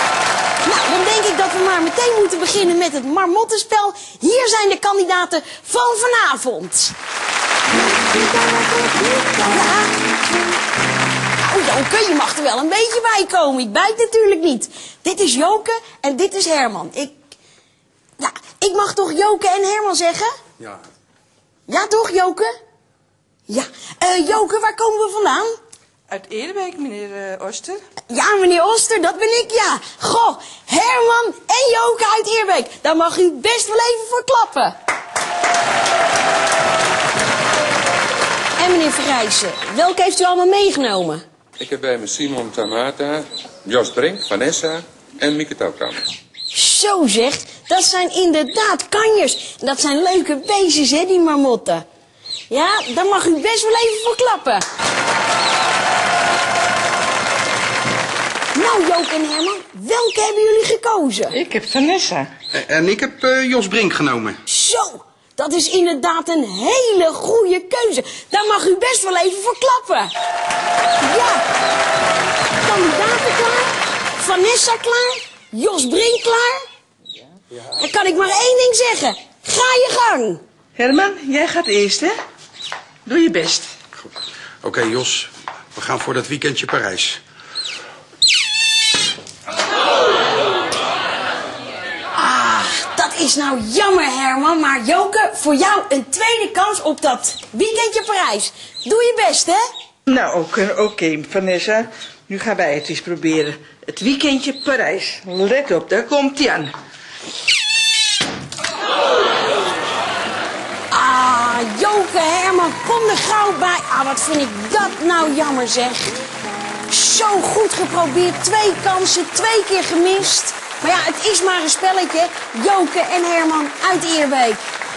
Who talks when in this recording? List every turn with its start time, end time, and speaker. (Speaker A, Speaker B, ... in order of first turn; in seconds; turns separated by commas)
Speaker A: 0.6-6.9, Speaker A: 9.4-9.9, Speaker A: 11.4-17.1, Speaker A: 18.2-20.3, Speaker A: 21.7-22.5, Speaker A: 23.5-25.5, Speaker B: 26.1-27.8, Speaker A: 28.1-34.7, Speaker A: 38.6-41.2, Speaker C: 41.6-46.0, Speaker A: 46.5-51.8, Speaker A: 52.5-54.6, Speaker A: 58.5-61.4, Speaker B: 61.3-62.3, Speaker D: 62.5-64.4, Speaker A: 64.5-70.1, Speaker A: 71.0-71.4, Speaker A: 72.6-76.6, Speaker A: 77.7-80.4, Speaker B: 80.8-82.1, Speaker B: 83.0-83.7, Speaker D: 84.6-87.2, Speaker A: 92.1-99.6, Speaker B: 100.0-106.7, Speaker A: 110.9-116.0, Speaker A: 116.9-124.6